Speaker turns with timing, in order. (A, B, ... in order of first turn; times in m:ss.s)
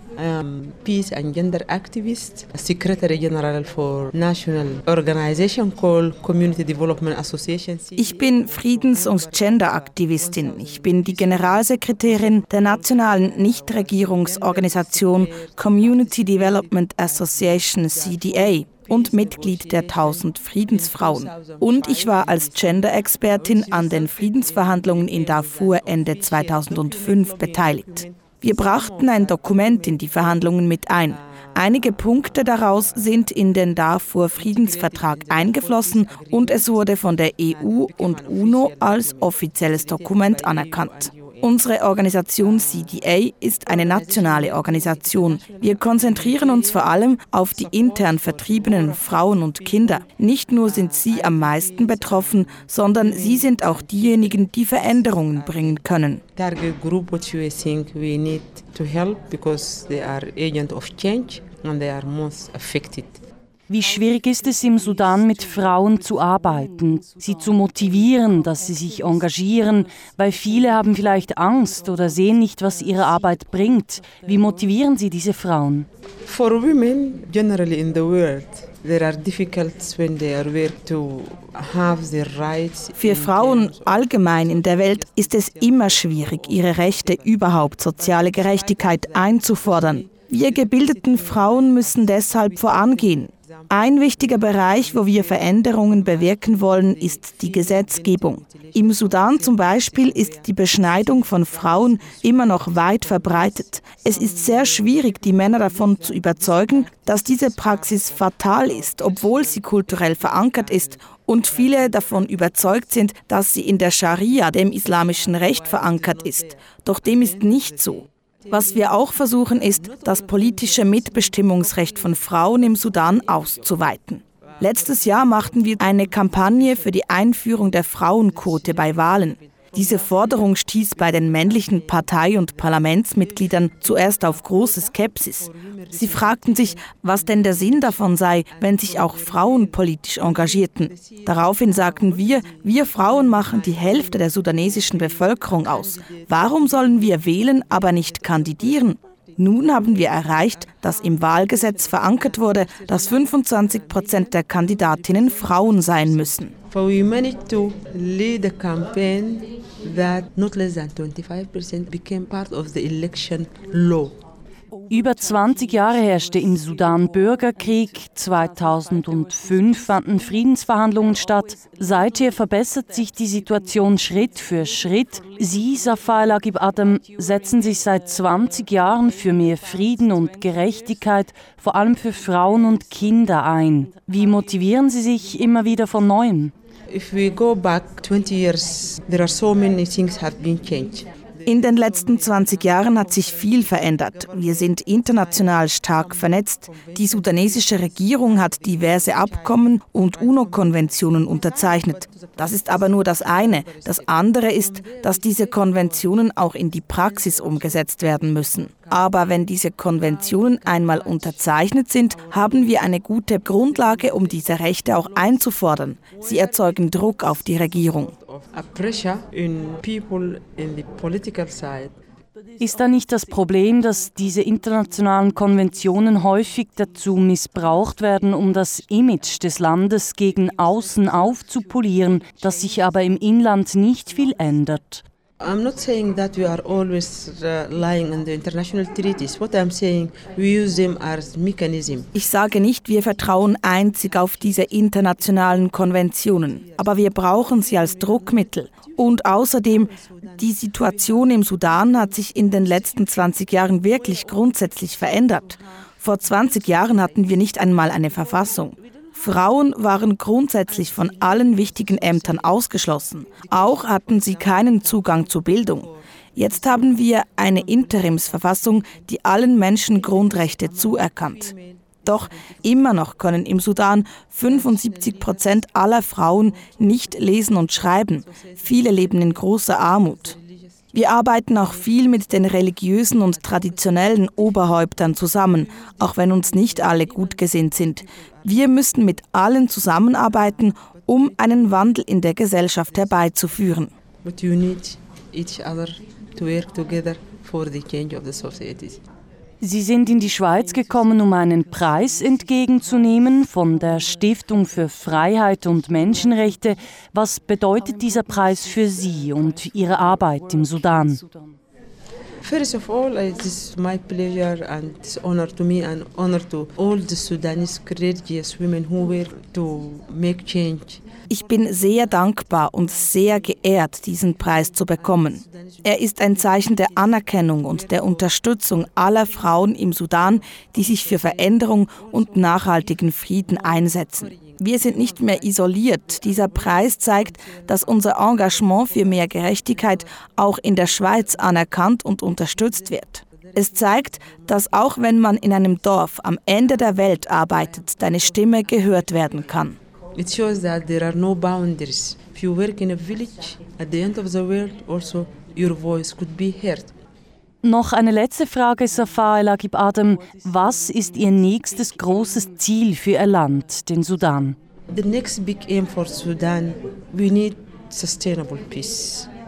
0:00.2-0:33.3 A
0:08.0-0:56.2 B
0:34.3-0:41.6 A
0:42.3-0:43.1 A
0:43.6-0:50.1 A
0:50.6-0:55.8 A
0:56.3-1:03.2 A
1:03.7-1:15.9 C
1:16.2-1:52.7 A
1:23.0-2:36.5 B
1:54.4-2:03.9 A
2:04.5-2:44.2 A
2:44.9-3:06.5 C
3:06.9-3:33.0 A
3:11.4-3:38.1 B
3:33.5-3:42.0 A
3:42.6-3:55.0 C
3:55.4-4:02.1 A
4:02.1-4:31.5 B
4:04.1-4:15.6 A
4:16.1-4:19.7 A
4:20.7-4:29.0 A
4:29.8-4:32.8 A
4:32.0-4:40.3 B
4:34.4-4:35.8 A
4:36.5-4:41.0 A
4:40.9-4:53.9 B
4:41.5-4:44.8 A
4:45.6-4:48.9 A
4:50.1-4:51.8 A
4:54.2-4:59.0 A
4:59.6-5:11.2 C
5:12.4-5:21.0 A
5:21.3-5:49.8 B
5:24.4-5:28.3 A
5:29.0-5:40.0 A
5:42.5-5:43.0 A
5:43.5-5:44.8 A
5:47.4-5:48.5 A
5:50.1-5:57.0 A
5:57.6-6:04.6 C
6:04.9-6:09.3 A